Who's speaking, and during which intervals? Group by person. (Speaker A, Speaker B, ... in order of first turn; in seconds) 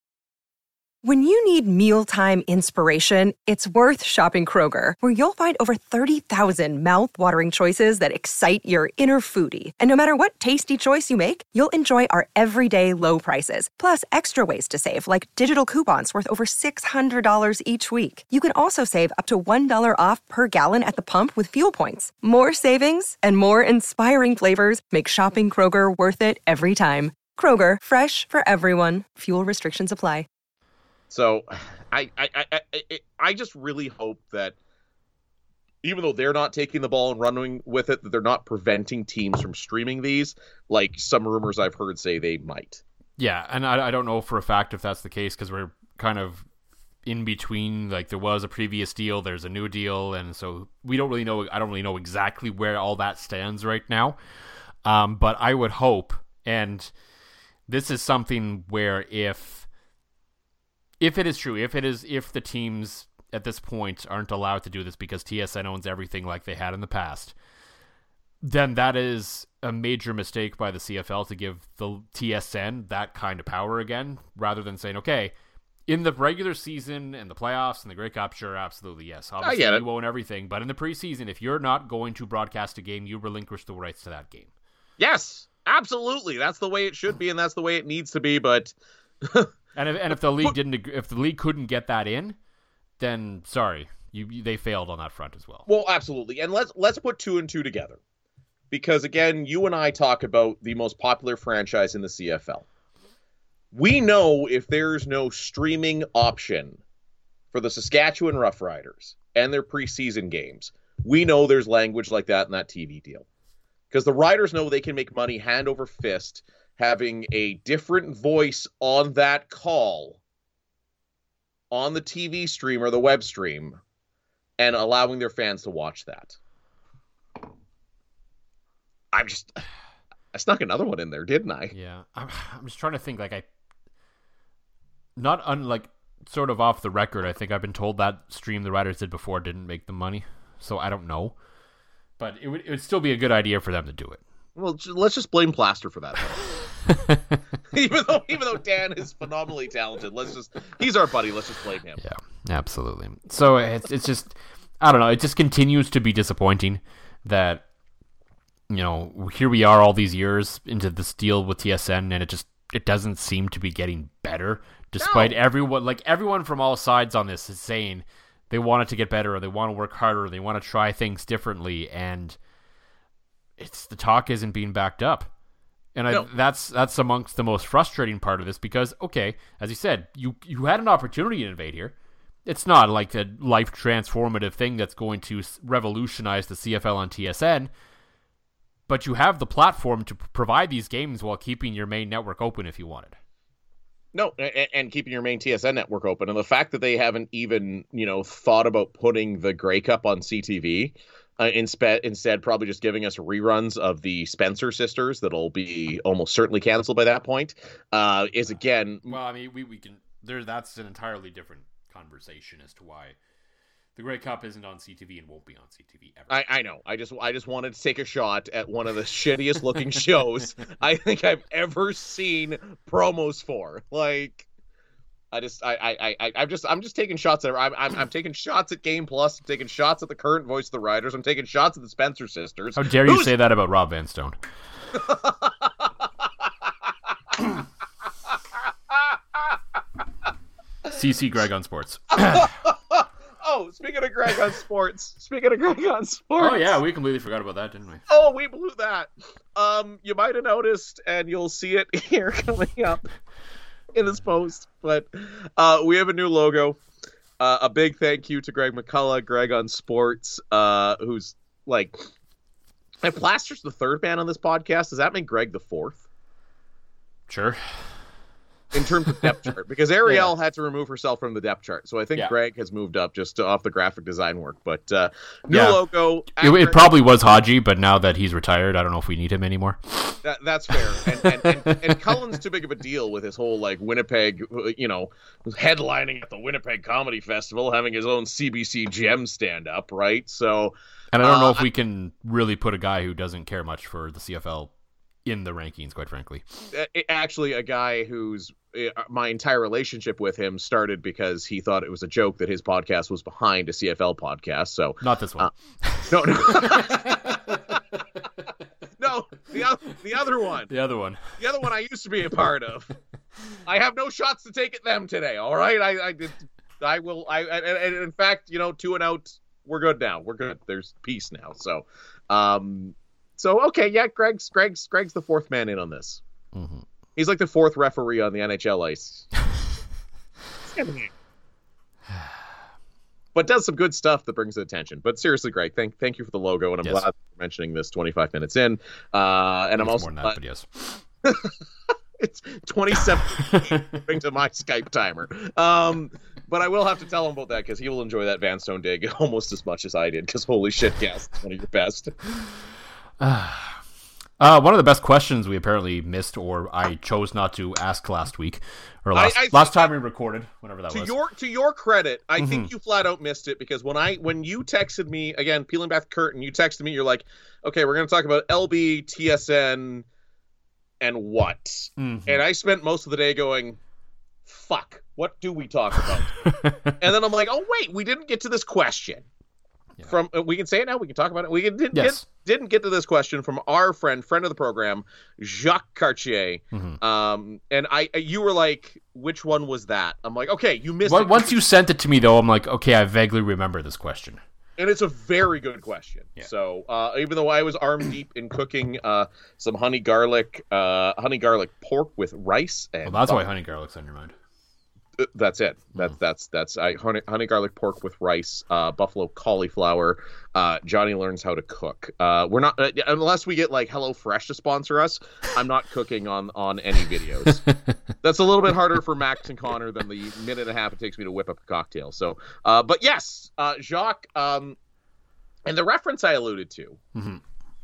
Speaker A: 1.0-30.3
Speaker B: 31.1-34.6, 35.8-42.8, 79.4-79.8, 85.0-89.5, 95.7-98.0, 98.7-102.7, 103.7-106.8, 107.5-113.2, 113.9-120.2, 121.7-123.8, 124.6-126.4, 129.1-129.6, 130.3-131.7, 144.6-146.7, 147.7-152.0, 165.0-165.4, 194.1-209.2, 216.3-224.5, 225.3-233.3, 234.9-235.9, 238.9-239.6, 242.2-246.8, 248.1-253.0, 253.9-256.8, 257.4-262.0, 263.0-266.0, 268.7-276.9, 280.2-291.6, 296.7-305.5, 306.1-307.8, 309.0-310.7, 311.4-312.9, 313.7-326.2, 327.2-329.3, 330.7-331.1, 333.4-340.4, 341.2-341.5, 342.2-352.1, 359.1-359.9, 360.9-370.1, 371.0-373.8, 374.5-379.2, 380.1-391.6, 394.8-403.5, 405.2-417.6, 418.2-424.8, 425.7-427.0
Speaker C: 43.2-46.5, 47.0-54.2, 54.9-56.9, 57.7-59.7, 61.0-67.3, 68.4-75.3, 75.9-84.5, 89.8-92.4, 93.0-95.7, 131.7-133.4, 135.2-141.3, 142.2-144.2, 146.9-147.4, 152.0-157.7, 158.7-172.4, 173.6-175.3, 175.9-181.9, 182.5-187.7, 188.9-193.2, 209.1-213.2, 214.0-216.4, 232.8-234.4, 240.9-242.5, 246.4-248.0, 267.3-267.8, 270.1-270.3, 275.5-275.8, 276.4-280.2, 281.2-282.0, 291.1-294.7, 295.2-296.4, 305.0-307.8, 310.7-311.2, 326.6-326.9, 339.8-341.0, 343.5-344.0, 353.2-353.8, 354.4-361.1, 362.4-362.7, 372.0-372.4, 376.4-377.0, 381.9-382.2, 386.7-387.0, 391.1-394.4, 403.1-404.3, 417.5-418.0, 427.1-427.4